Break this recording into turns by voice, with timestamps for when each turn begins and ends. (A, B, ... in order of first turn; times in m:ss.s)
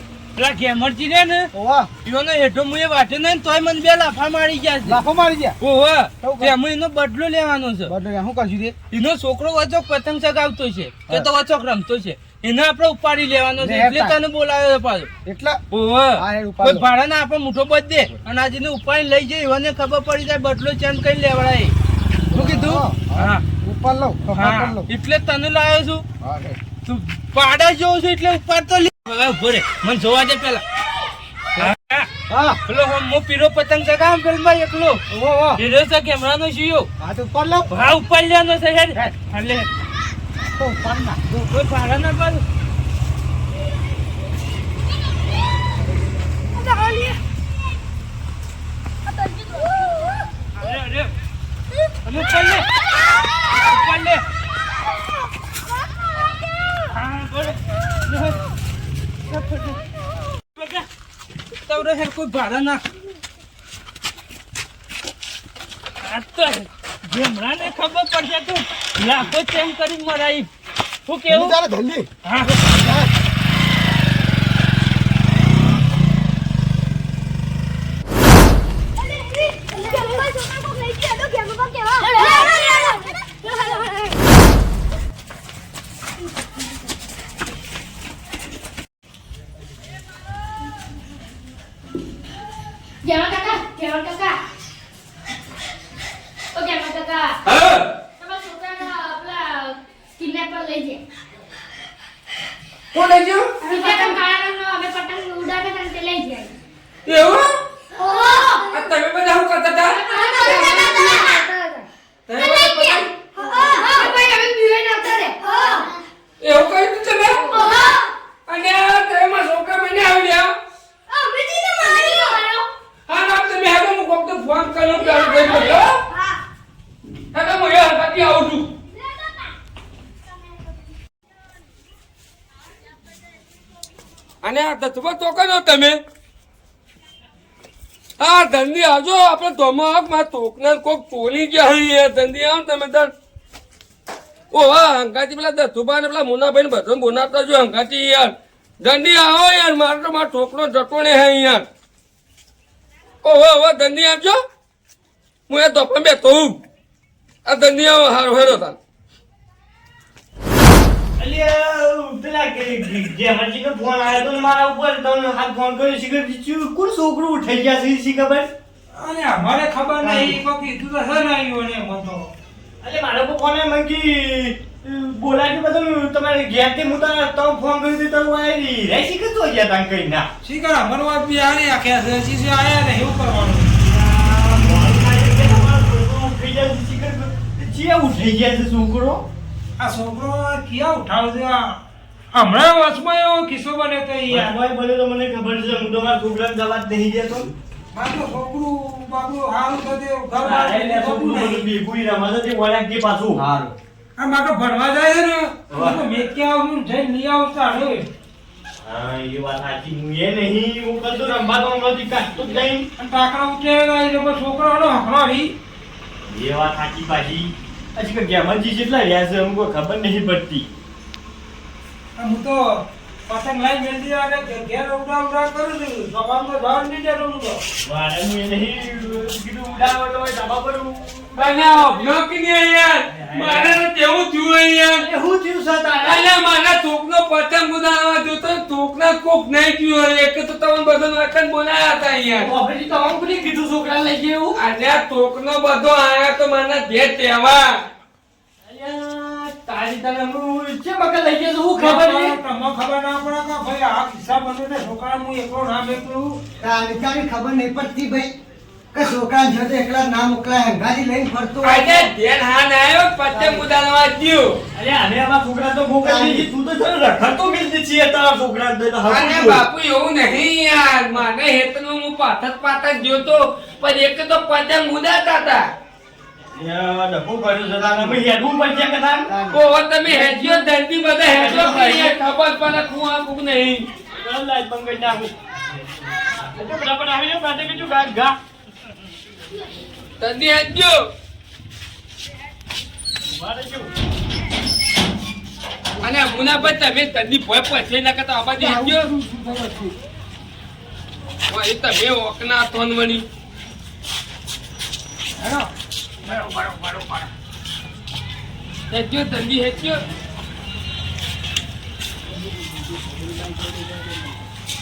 0:00.4-0:01.5 A
0:01.5-0:01.9 B
0:02.0-0:05.0 A
0:04.8-0:05.6 B
0:05.6-0:07.9 A
0:06.2-0:06.5 B
0:07.9-0:08.7 B
0:08.9-0:15.1 A
0:13.6-0:14.2 B
0:15.2-0:15.6 B
0:15.7-0:21.7 A
0:16.2-0:16.9 B
0:22.3-0:23.4 A
0:22.3-0:24.9 B
0:24.3-0:26.0 A
0:26.2-0:26.6 B
0:26.8-0:30.6 A
0:31.6-0:32.1 A
0:32.3-0:32.6 B
0:32.6-0:35.0 A
0:35.1-0:35.6 B
0:35.6-0:36.9 A
0:37.0-0:37.7 B
0:37.7-0:39.6 A
0:40.6-0:41.5 B
0:41.5-0:42.4 A
0:46.6-0:47.1 A
0:50.6-0:51.1 A
0:52.0-0:52.6 A
0:53.5-0:54.2 A
0:56.9-0:58.4 A
0:59.3-0:59.8 A
1:00.6-1:00.8 A
1:01.6-1:02.8 A
1:06.0-1:10.5 A
1:11.0-1:11.6 A
1:11.3-1:13.1 B
1:12.2-1:12.5 A
1:19.2-1:23.8 C
1:33.0-1:34.4 C
1:36.5-1:37.3 C
1:37.4-1:37.9 D
1:38.2-1:41.0 C
1:42.9-1:44.2 D
1:43.6-1:46.5 C
1:47.0-1:47.5 D
1:47.9-1:48.8 C
1:48.7-1:51.4 D
1:50.1-1:56.0 C
1:52.3-1:54.2 D
1:56.4-1:57.8 D
1:57.4-1:58.1 C
1:58.5-2:00.5 D
2:01.1-2:02.7 C
2:03.1-2:06.0 D
2:05.0-2:06.4 C
2:07.3-2:08.7 D
2:14.4-2:16.0 D
2:18.2-2:23.1 D
2:24.5-2:31.6 D
2:33.2-2:34.4 D
2:35.5-2:36.6 D
2:37.4-2:38.8 D
2:41.2-2:48.5 E
2:49.0-2:52.3 F
2:50.0-2:50.4 E
2:52.8-3:00.3 E
3:00.4-3:03.7 F
3:03.8-3:09.2 E
3:09.8-3:11.8 F
3:12.3-3:14.5 F
3:14.3-3:17.5 E
3:17.9-3:21.7 F
3:20.4-3:23.7 E
3:24.2-3:28.1 F
3:25.7-3:26.0 E
3:28.8-3:32.8 E
3:33.0-3:35.5 F
3:36.3-3:40.7 E
3:42.2-3:42.8 F
3:43.3-3:47.6 F
3:47.8-3:51.5 E
3:51.3-3:55.0 D
3:53.1-3:53.8 E
3:55.0-3:56.3 E
3:56.0-4:02.5 D
4:02.3-4:04.6 E
4:04.5-4:07.8 D
4:08.6-4:12.4 E
4:11.8-4:16.4 F
4:16.6-4:18.3 B
4:18.9-4:22.1 B
4:21.6-4:24.6 D
4:23.3-4:23.6 E
4:24.7-4:29.6 E
4:26.0-4:26.5 B
4:29.0-4:35.7 D
4:36.5-4:39.3 E
4:39.3-4:39.6 B
4:39.5-4:43.8 D
4:40.0-4:40.4 E
4:41.3-4:42.2 E
4:44.2-4:45.3 E
4:46.5-4:48.4 E
4:50.2-4:51.0 D
4:53.3-4:53.9 E
4:56.0-4:59.1 D
4:58.6-4:59.9 B
5:01.5-5:03.2 D
5:05.4-5:05.7 F
5:06.2-5:07.3 D
5:08.9-5:10.0 D
5:13.1-5:14.2 E